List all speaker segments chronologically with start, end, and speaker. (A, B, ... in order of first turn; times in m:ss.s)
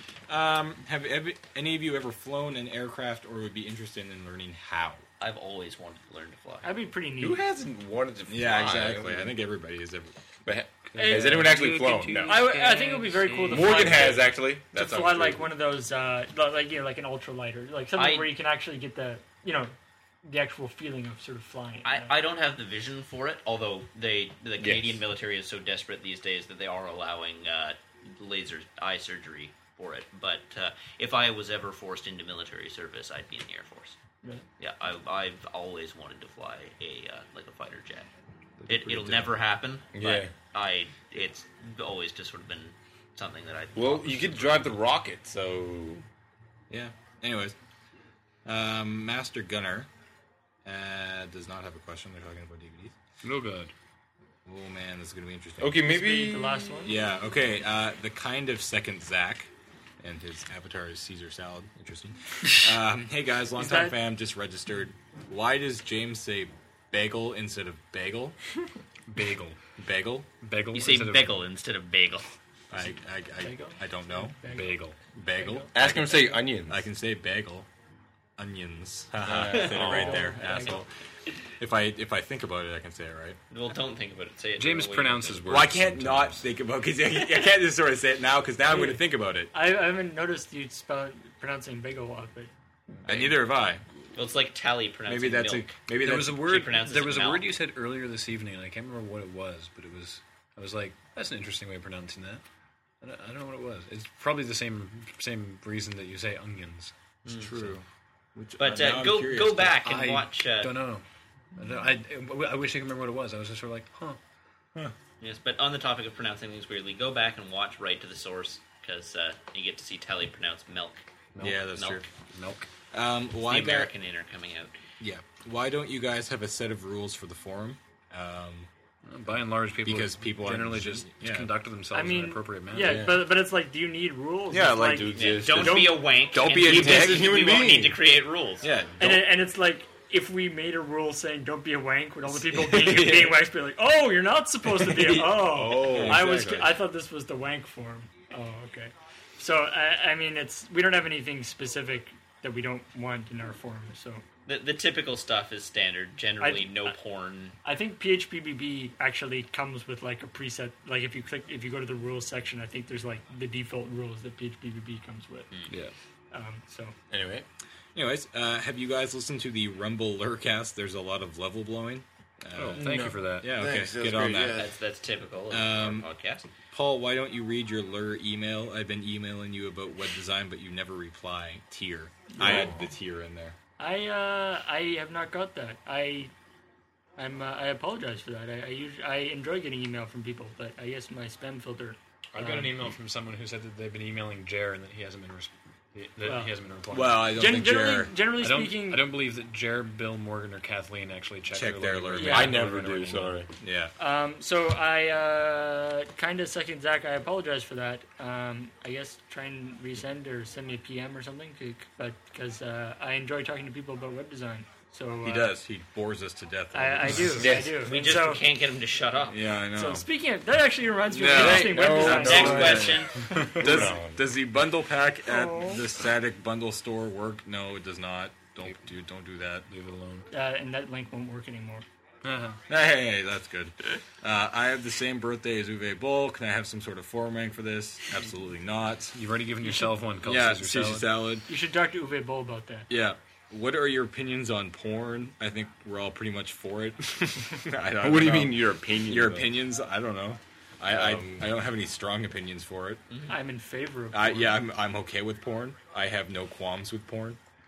0:00.3-0:05.0 A
0:05.2-0:06.7 B
0:06.6-0:07.4 C
0:07.2-0:09.3 D
0:08.3-0:10.2 A
0:10.4-0:12.4 D
0:10.9-0:14.1 E
0:11.0-0:11.6 C
0:12.2-0:22.1 C
0:13.4-0:15.5 D
0:17.9-0:18.3 B
0:21.8-0:34.0 B
0:24.6-0:25.0 D
0:34.6-0:38.1 B
0:38.6-0:39.3 A
0:38.7-0:44.7 B
0:39.9-0:40.3 D
0:43.7-0:46.0 D
0:46.7-0:47.6 A
0:48.4-0:49.9 A
0:50.6-0:52.9 A
0:53.2-0:53.7 E
0:54.4-0:55.8 A
0:55.6-0:56.8 D
0:55.8-0:57.0 C
0:56.8-1:08.4 A
1:03.6-1:04.0 C
1:09.1-1:09.6 E
1:09.8-1:10.3 A
1:10.4-1:11.4 E
1:10.7-1:12.3 B
1:12.7-1:14.4 A
1:13.4-1:14.7 C
1:14.4-1:15.0 E
1:15.1-1:17.7 A
1:15.4-1:15.7 C
1:15.7-1:16.8 D
1:18.4-1:20.9 A
1:19.2-1:20.3 D
1:19.5-1:20.6 B
1:19.8-1:20.8 C
1:21.6-1:23.4 A
1:23.5-1:25.5 B
1:24.6-1:26.4 E
1:25.5-1:29.5 A
1:28.6-1:32.5 C
1:33.0-1:33.8 A
1:34.1-1:35.8 B
1:35.1-1:36.5 A
1:36.0-1:42.4 E
1:36.4-1:37.5 B
1:43.0-1:47.8 E
1:47.2-1:47.6 B
1:47.5-1:47.8 A
1:48.3-1:49.8 A
1:48.6-1:50.8 B
1:49.8-1:51.0 E
1:51.6-1:54.2 E
1:55.2-2:02.0 B
2:01.3-2:02.7 E
2:01.4-2:02.0 A
2:02.9-2:03.9 A
2:03.4-2:04.8 B
2:05.0-2:08.7 A
2:09.0-2:13.1 E
2:09.8-2:11.5 A
2:11.9-2:15.1 C
2:12.8-2:13.2 D
2:14.5-2:17.4 A
2:14.7-2:18.0 D
2:15.1-2:18.7 B
2:18.6-2:19.3 A
2:19.0-2:34.2 C
2:22.3-2:23.4 A
2:24.7-2:26.8 A
2:25.4-2:26.3 D
2:34.5-2:37.6 B
2:36.4-2:36.9 C
2:37.6-2:45.5 C
2:46.3-2:47.0 C
2:47.1-2:47.4 D
2:47.9-2:54.7 A
2:52.5-2:53.5 E
2:52.8-2:54.6 D
2:54.5-2:56.5 B
2:55.5-2:56.1 A
2:56.7-3:03.6 A
3:02.3-3:02.7 C
3:02.4-3:02.8 D
3:03.8-3:06.3 C
3:07.2-3:12.7 C
3:12.3-3:17.3 E
3:16.2-3:16.5 C
3:16.9-3:18.2 A
3:17.3-3:19.1 C
3:18.4-3:23.4 E
3:21.5-3:22.5 A
3:22.2-3:22.6 C
3:22.2-3:23.5 D
3:23.6-3:23.9 A
3:24.0-3:35.5 C
3:35.2-3:37.6 A
3:36.7-3:38.4 C
3:37.4-3:37.8 D
3:37.7-3:39.4 B
3:39.3-3:40.0 A
3:39.7-3:42.8 C
3:41.1-3:49.7 A
3:41.2-3:44.2 D
3:42.0-3:43.3 B
3:43.3-3:43.6 E
3:45.2-3:45.8 C
3:49.7-3:50.3 E
3:50.3-3:51.8 C
3:52.2-3:52.6 E
3:52.7-3:59.2 A
3:59.1-4:01.1 E
4:00.2-4:01.5 A
4:01.5-4:02.9 C
4:02.9-4:13.0 A
4:08.0-4:09.6 D
4:10.9-4:11.5 D
4:13.3-4:14.6 C
4:14.1-4:17.4 A